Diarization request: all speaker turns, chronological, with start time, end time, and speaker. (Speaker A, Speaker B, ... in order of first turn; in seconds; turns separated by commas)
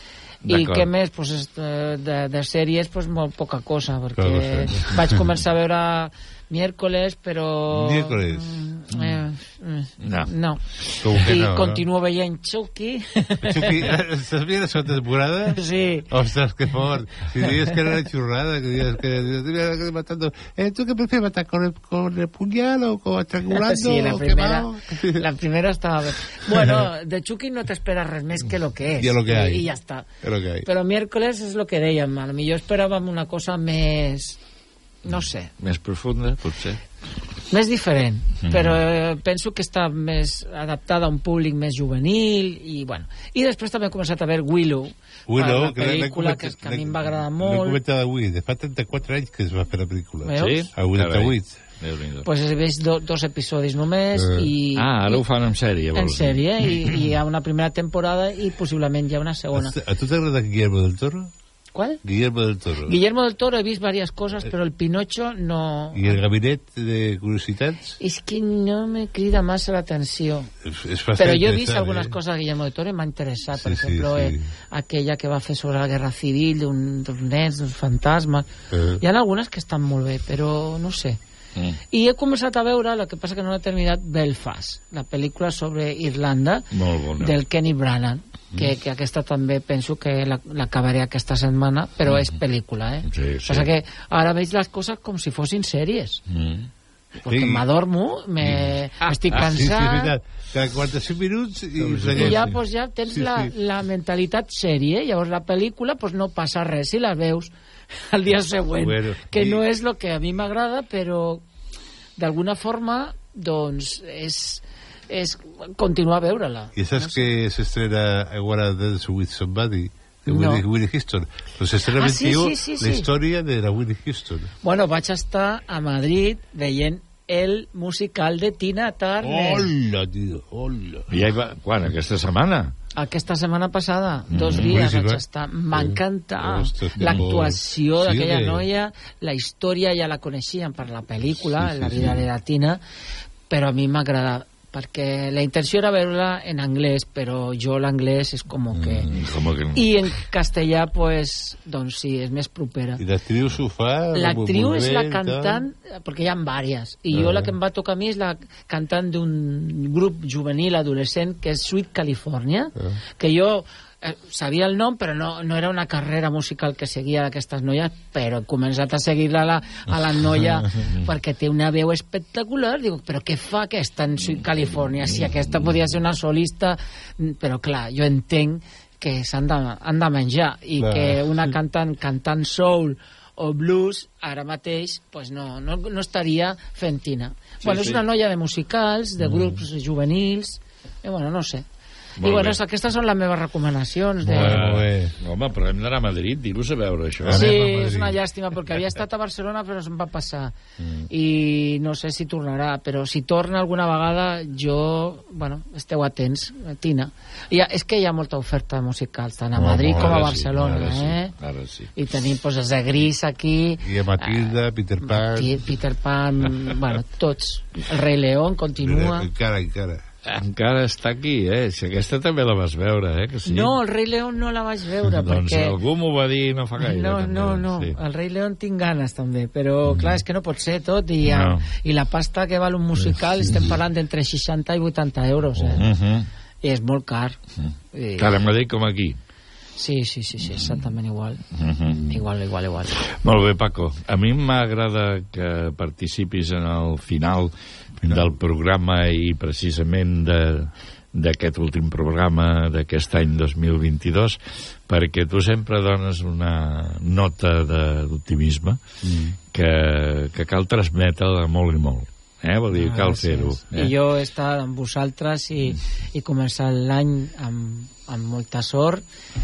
Speaker A: 0.5-0.9, Speaker B: 0.5-10.6, Speaker C: 4.2-5.2, Speaker C: 7.7-8.6, Speaker A: 10.0-11.3, Speaker C: 11.0-11.8, Speaker B: 11.2-13.9, Speaker C: 13.4-25.3, Speaker B: 15.5-16.1, Speaker B: 23.5-30.1, Speaker C: 29.0-29.7, Speaker C: 30.2-30.7, Speaker B: 30.6-34.4, Speaker B: 35.0-35.5, Speaker A: 35.6-36.8, Speaker B: 37.5-47.8, Speaker A: 38.5-38.8, Speaker C: 45.3-51.6, Speaker B: 50.2-50.7, Speaker A: 50.3-52.3, Speaker B: 52.2-55.2, Speaker C: 54.1-54.5, Speaker A: 54.8-56.4, Speaker B: 55.9-59.8, Speaker C: 59.5-61.3, Speaker B: 61.7-62.0, Speaker C: 62.0-63.0, Speaker B: 62.9-66.2, Speaker C: 65.9-68.0, Speaker B: 68.0-70.5, Speaker C: 70.6-72.2, Speaker B: 71.2-78.5, Speaker C: 73.5-74.5, Speaker C: 78.7-79.0, Speaker B: 79.0-81.2, Speaker B: 81.9-86.7, Speaker A: 86.7-87.4, Speaker B: 87.2-96.2, Speaker A: 93.1-93.7, Speaker A: 96.3-96.7, Speaker C: 97.2-97.7, Speaker B: 97.2-100.2, Speaker C: 99.3-102.5, Speaker A: 101.8-102.6, Speaker B: 102.1-107.5, Speaker C: 103.1-103.5, Speaker B: 108.1-111.4, Speaker C: 108.8-109.6, Speaker B: 112.2-117.3, Speaker C: 116.8-124.5, Speaker B: 120.3-120.7, Speaker B: 121.9-123.1, Speaker B: 124.6-129.7, Speaker C: 129.2-131.1, Speaker A: 131.1-132.7, Speaker B: 133.0-142.8, Speaker A: 134.3-134.8, Speaker C: 134.4-138.7, Speaker C: 141.6-142.3, Speaker B: 143.5-149.1, Speaker C: 148.7-149.1, Speaker A: 149.1-149.9, Speaker B: 149.7-153.0, Speaker C: 153.0-155.7, Speaker B: 154.1-191.7, Speaker C: 157.1-157.5, Speaker C: 170.2-170.9, Speaker A: 174.6-175.7, Speaker C: 180.8-181.2, Speaker A: 187.6-188.0, Speaker C: 189.2-189.5, Speaker A: 192.2-192.6, Speaker B: 192.2-194.6, Speaker C: 194.2-195.2, Speaker A: 194.3-198.0, Speaker C: 197.2-198.2, Speaker B: 197.3-200.6, Speaker A: 200.8-201.1, Speaker B: 201.1-211.3, Speaker C: 209.5-210.9, Speaker A: 209.9-211.9, Speaker B: 211.9-219.3, Speaker C: 213.8-215.6, Speaker C: 218.8-220.0, Speaker A: 220.3-223.8, Speaker B: 223.4-225.8, Speaker A: 225.2-228.0, Speaker B: 226.8-235.9, Speaker A: 231.2-231.7, Speaker A: 235.6-236.3, Speaker B: 236.6-237.4, Speaker A: 237.6-239.2, Speaker B: 237.9-238.4, Speaker B: 239.8-241.4, Speaker A: 240.5-240.8, Speaker A: 241.5-242.1, Speaker B: 242.1-243.0, Speaker A: 243.1-258.8, Speaker C: 248.0-248.3, Speaker C: 259.0-259.4, Speaker A: 259.5-263.9, Speaker B: 262.7-269.0